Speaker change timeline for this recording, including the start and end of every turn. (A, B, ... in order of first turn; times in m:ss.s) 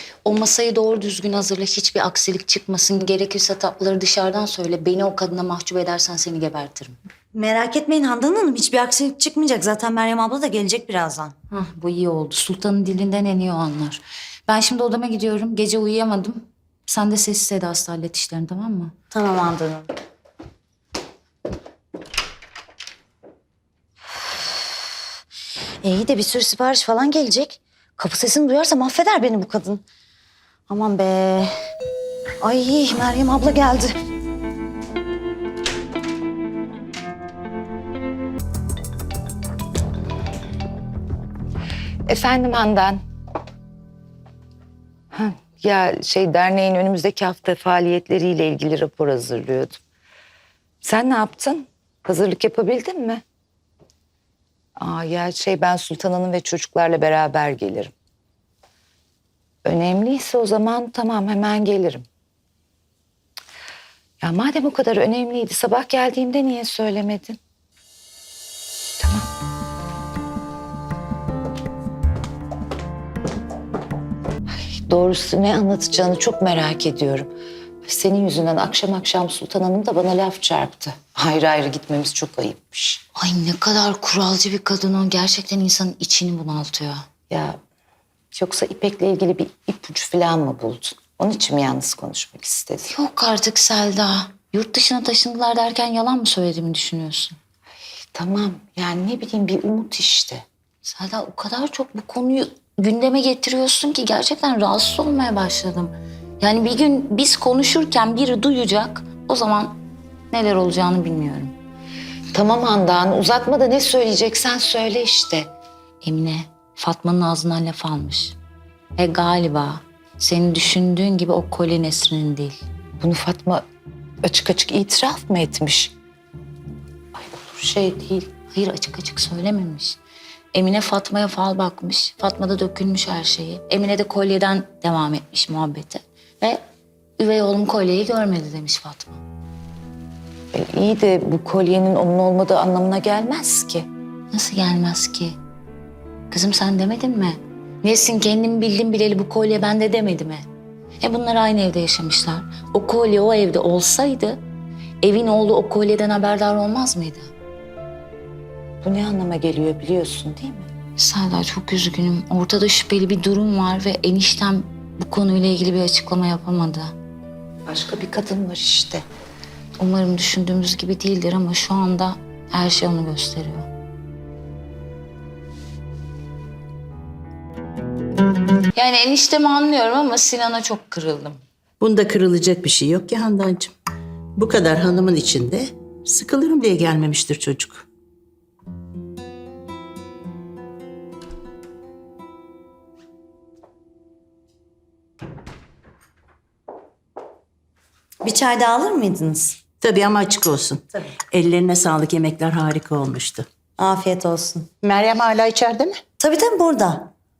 0:00.2-0:07.0 A
0:07.3-0:11.3 B
0:11.5-0:18.9 A
0:19.1-0:19.8 B
0:25.8-0:29.8 B
0:30.7-0:31.5 B
0:32.4-0:33.9 B
0:42.1-0:43.0 C
0:45.1-0:49.8 C
0:50.8-0:53.2 C
0:54.8-0:57.9 C
0:59.6-1:02.0 C
1:04.2-1:07.4 C
1:09.0-1:09.3 C
1:14.6-1:17.3 C
1:17.8-1:23.0 C
1:23.2-1:27.0 A
1:27.3-1:27.6 C
1:28.3-1:32.9 C
1:32.9-1:37.4 A
1:38.1-1:40.4 C
1:40.8-1:49.8 A
1:50.3-1:51.6 A
1:52.3-1:55.5 C
1:56.0-1:58.4 A
1:59.0-2:02.6 A
2:03.0-2:03.6 C
2:04.2-2:05.9 C
2:07.2-2:08.3 C
2:08.5-2:10.0 A
2:10.5-2:16.6 A
2:17.2-2:19.2 A
2:20.5-2:23.9 C
2:24.3-2:25.3 A
2:26.3-2:30.4 A
2:31.0-2:34.4 A
2:35.0-2:37.3 A
2:38.8-2:40.7 C
2:41.0-2:46.9 A
2:47.7-2:49.0 C
2:49.8-2:53.7 A
2:58.8-3:01.4 A
3:01.8-3:03.7 D
3:04.4-3:07.8 D
3:18.2-3:19.5 B
3:19.8-3:23.8 D
3:23.9-3:24.6 B
3:24.8-3:26.0 D
3:26.2-3:27.0 B